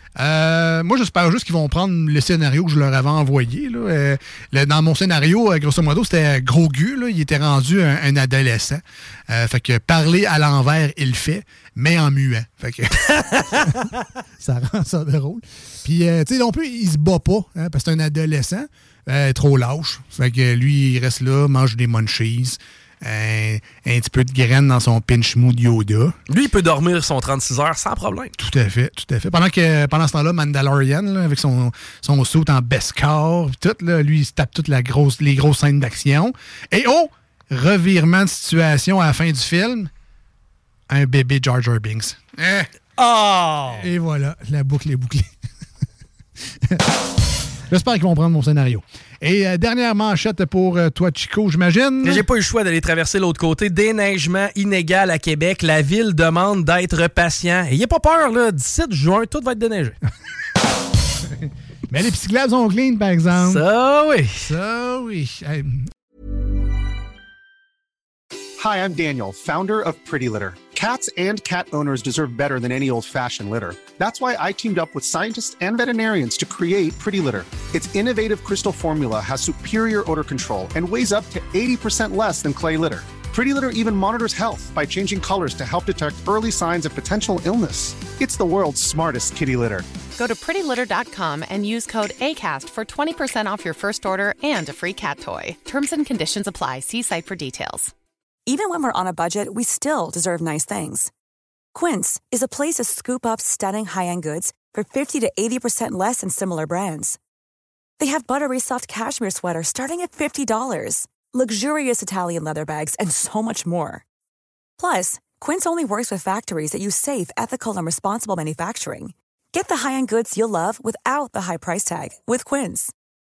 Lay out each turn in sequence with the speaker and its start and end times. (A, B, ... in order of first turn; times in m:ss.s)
0:00.2-0:26.1 A
0:26.3-0:28.3 B
0:28.4-0:39.9 A
0:40.9-0:42.7 A
0:43.0-0:43.9 B
0:43.7-0:45.3 A
0:46.6-0:47.0 A
0:47.7-0:52.2 A
0:52.0-1:00.0 B
1:01.3-1:03.6 A
1:03.3-1:04.4 B
1:04.4-1:05.9 A
1:08.6-1:29.9 C
1:30.2-1:37.9 D
1:38.5-1:41.1 E
1:41.7-1:47.2 E
1:48.0-1:54.0 E
1:54.8-2:02.9 E